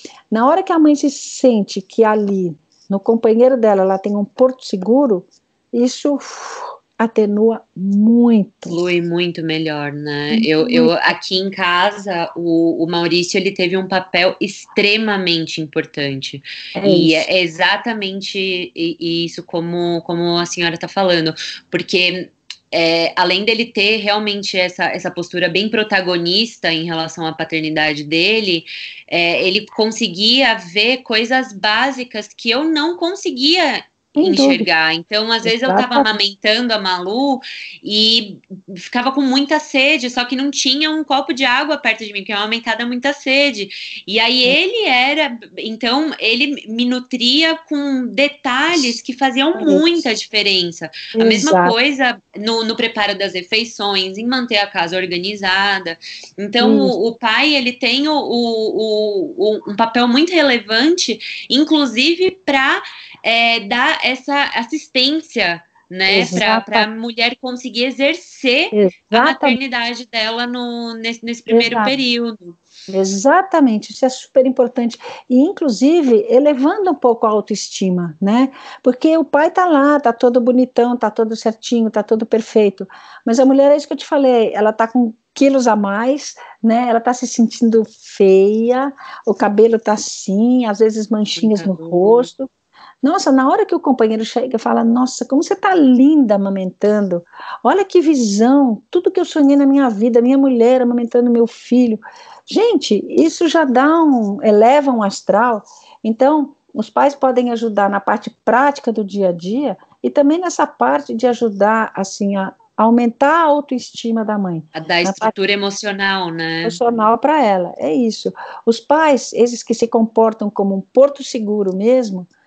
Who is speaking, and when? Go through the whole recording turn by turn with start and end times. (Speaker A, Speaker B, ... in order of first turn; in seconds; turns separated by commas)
Speaker A: 0.3-8.7, Speaker B: 8.7-72.6, Speaker A: 10.3-11.1, Speaker A: 16.7-17.3, Speaker A: 34.1-34.7, Speaker A: 35.4-36.1, Speaker A: 49.5-50.0, Speaker A: 51.1-51.8, Speaker A: 56.6-56.9, Speaker A: 66.1-66.9, Speaker A: 68.7-69.6, Speaker A: 71.5-72.0, Speaker A: 72.9-92.5, Speaker B: 91.3-92.3, Speaker A: 93.0-115.3, Speaker B: 114.7-116.8, Speaker A: 116.6-122.3